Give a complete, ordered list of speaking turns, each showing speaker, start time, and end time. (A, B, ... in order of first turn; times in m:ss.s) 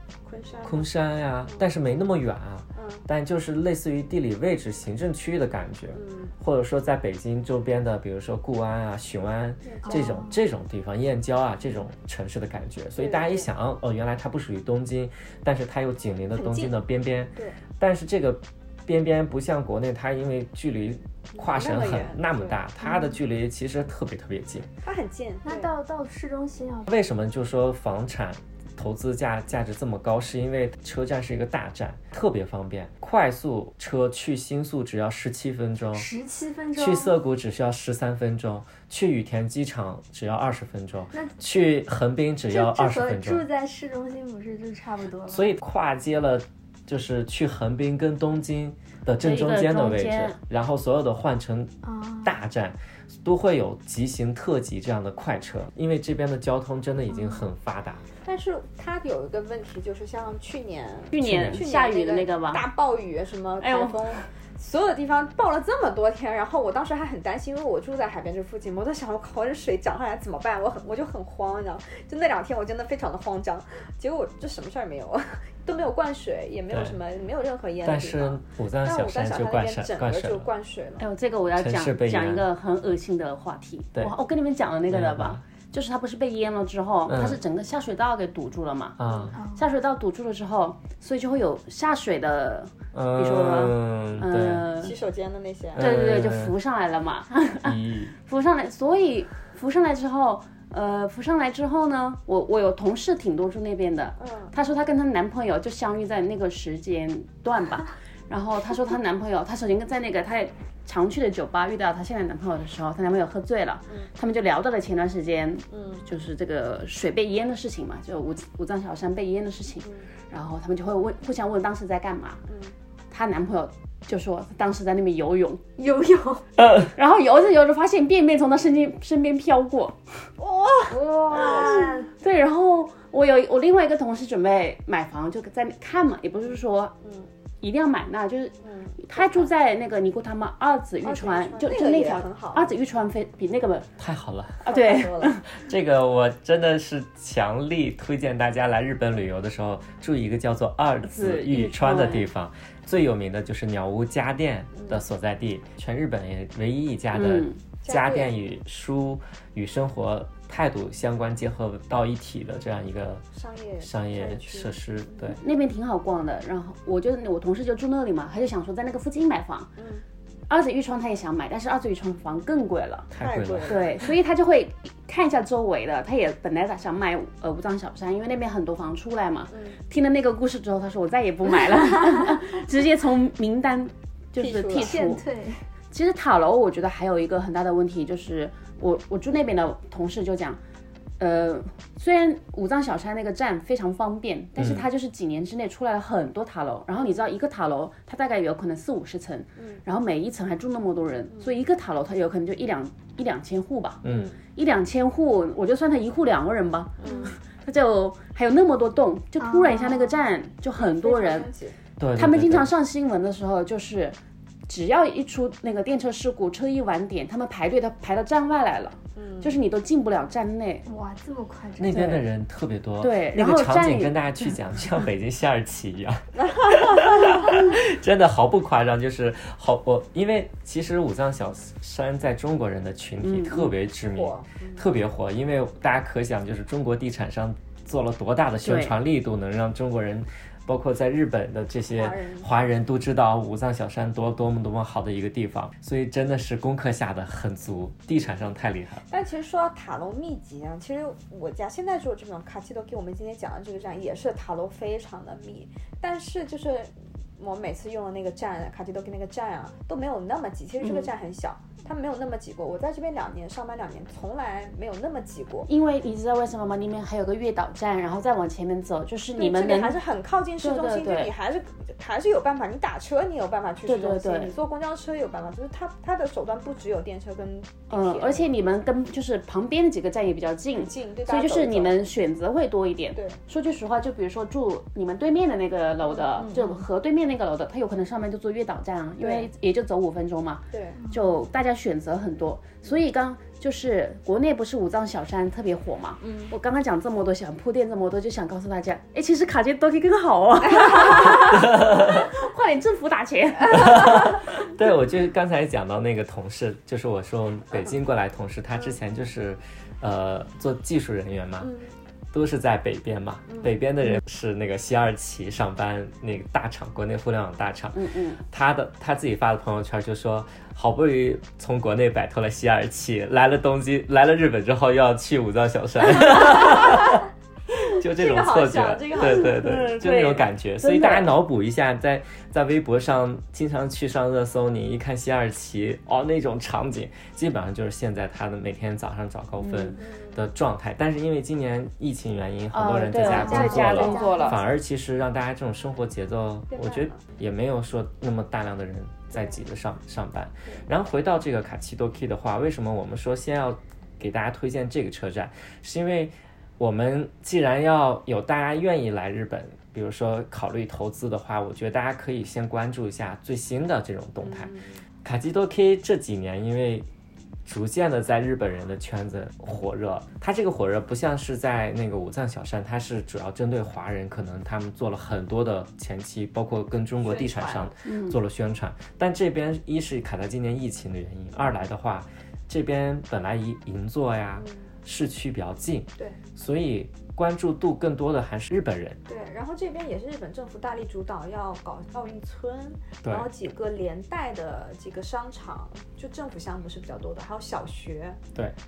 0:00.2-0:00.9 A
0:00.6-0:24.7 B
0:02.8-0:03.0 A
0:05.9-0:06.3 A
0:09.6-0:10.1 A
0:09.9-0:10.4 C
0:13.0-0:13.5 A
0:16.4-0:16.7 A
0:21.4-0:22.6 A
0:24.8-0:25.7 A
0:25.4-0:26.9 C
0:26.9-0:36.1 B
0:35.9-0:37.1 C
0:36.8-0:43.5 B
0:42.5-0:45.5 C
0:45.3-0:58.0 B
0:49.2-0:50.4 D
0:51.8-0:52.4 C
0:58.2-1:21.0 A
1:01.1-1:02.7 D
1:01.2-1:01.6 B
1:03.6-1:04.2 D
1:16.7-1:17.0 B
1:17.8-1:20.5 B
1:21.0-1:29.0 D
1:21.6-1:22.5 B
1:24.9-1:25.4 B
1:27.1-1:27.4 B
1:29.0-1:29.4 B
1:29.3-1:29.7 C
1:29.5-1:35.0 D
1:32.9-1:34.7 B
1:34.8-1:35.8 A
1:35.7-1:36.5 B
1:35.8-2:02.4 D
1:37.6-1:38.2 B
1:44.2-1:44.6 A
1:55.7-1:56.0 A
2:02.5-2:02.7 A
2:03.1-2:05.6 D
2:05.8-2:06.5 C
2:06.7-2:10.3 D
2:10.4-2:11.9 A
2:10.9-2:12.1 C
2:11.3-2:17.0 D
2:17.0-2:17.3 A
2:17.6-2:23.9 D
2:18.6-2:19.5 A
2:21.0-2:22.7 A
2:24.0-2:24.8 B
2:24.6-2:25.4 D
2:24.7-2:25.4 A
2:25.5-2:43.2 B
2:31.0-2:32.3 D
2:34.7-2:35.0 A
2:37.1-2:37.6 D
2:37.8-2:38.3 A
2:43.3-2:44.8 A
2:43.8-2:45.4 B
2:45.2-2:49.7 D
2:49.8-2:50.0 A
2:50.5-2:53.1 D
2:53.1-2:53.8 B
2:53.2-2:54.0 A
2:53.7-3:05.2 D
2:59.5-2:59.8 A
3:04.4-3:05.1 A
3:04.7-3:05.6 C
3:05.9-3:10.6 D
3:11.2-3:24.0 D
3:14.6-3:14.8 B
3:19.6-3:19.8 A
3:24.0-3:24.4 B
3:24.6-3:31.5 D
3:27.0-3:27.4 A
3:29.4-3:30.2 C
3:30.8-3:31.8 A
3:32.0-3:32.7 B
3:32.2-3:34.2 D
3:34.7-3:40.9 D
3:39.2-3:39.6 A
3:40.9-3:42.1 C
3:41.8-4:09.0 B
3:41.9-3:42.2 D
3:43.0-3:44.2 D
3:46.4-3:47.4 A
3:53.2-3:53.7 D
3:54.2-3:54.9 A
3:58.6-3:59.0 D
4:01.9-4:02.5 A
4:09.1-4:25.7 A
4:20.8-4:21.1 D
4:25.7-4:30.0 D
4:29.4-4:38.5 A
4:30.6-4:31.3 D
4:33.8-4:34.5 D
4:37.9-5:04.3 D
4:40.8-4:42.1 A
4:43.1-4:43.4 A
4:46.1-4:46.9 A
4:49.2-4:49.5 A
4:50.7-4:51.0 A
4:56.2-4:56.5 A
5:00.7-5:01.6 A
5:01.7-5:02.2 B
5:03.7-5:11.7 B
5:11.6-5:11.9 A
5:12.3-5:27.3 B
5:13.5-5:13.8 A
5:17.9-5:18.4 D
5:27.8-6:07.1 B
5:28.0-5:29.8 A
5:29.4-5:31.4 D
5:39.6-5:40.0 D
5:40.0-5:40.4 A
5:42.7-5:44.6 D
5:43.2-5:44.8 C
5:43.2-5:44.4 A
5:46.7-5:47.2 A
6:04.4-6:05.0 A
6:07.7-6:29.2 B
6:17.2-6:17.9 A
6:18.0-6:18.4 D
6:24.6-6:24.9 A
6:29.3-6:38.4 A